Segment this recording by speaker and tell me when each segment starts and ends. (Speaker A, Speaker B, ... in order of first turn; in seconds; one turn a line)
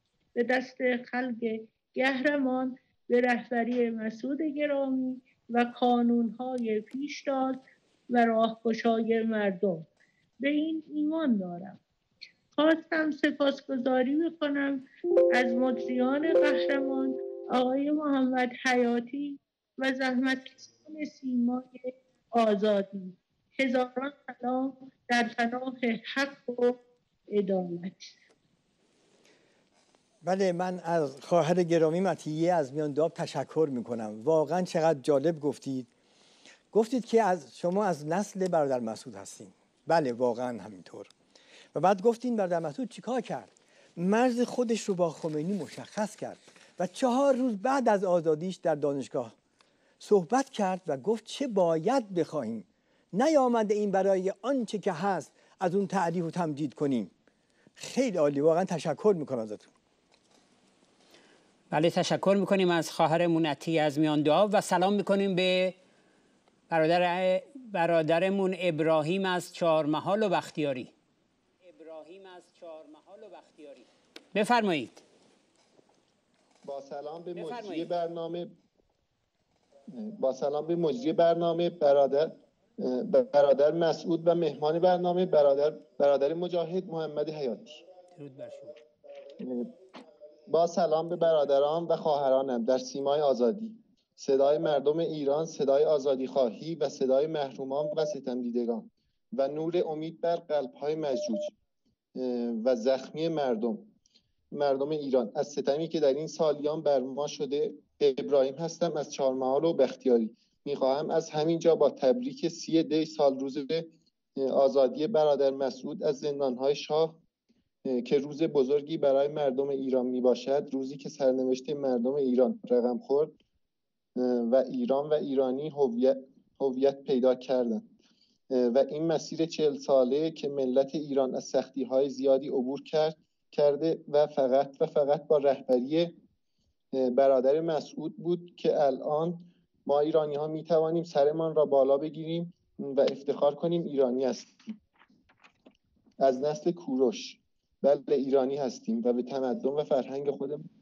Speaker A: 0.3-9.9
Speaker A: 10.4-11.8
Speaker A: 12.6-28.2
Speaker B: 30.2-35.9
Speaker B: 36.7-41.1
Speaker B: 41.7-49.3
Speaker B: 50.0-57.1
Speaker B: 57.8-59.7
Speaker C: 61.7-65.8
Speaker C: 66.7-70.9
Speaker C: 71.6-75.0
Speaker D: 76.6-78.5
Speaker C: 77.3-77.9
Speaker D: 79.9-87.8
Speaker C: 88.2-88.7
Speaker D: 89.4-89.7
Speaker D: 90.5-101.5
Speaker D: 102.2-103.9
Speaker D: 104.5-117.2
Speaker D: 117.8-123.3
Speaker D: 124.2-127.9
Speaker D: 128.5-136.2
Speaker D: 136.9-144.8
Speaker D: 146.2-150.7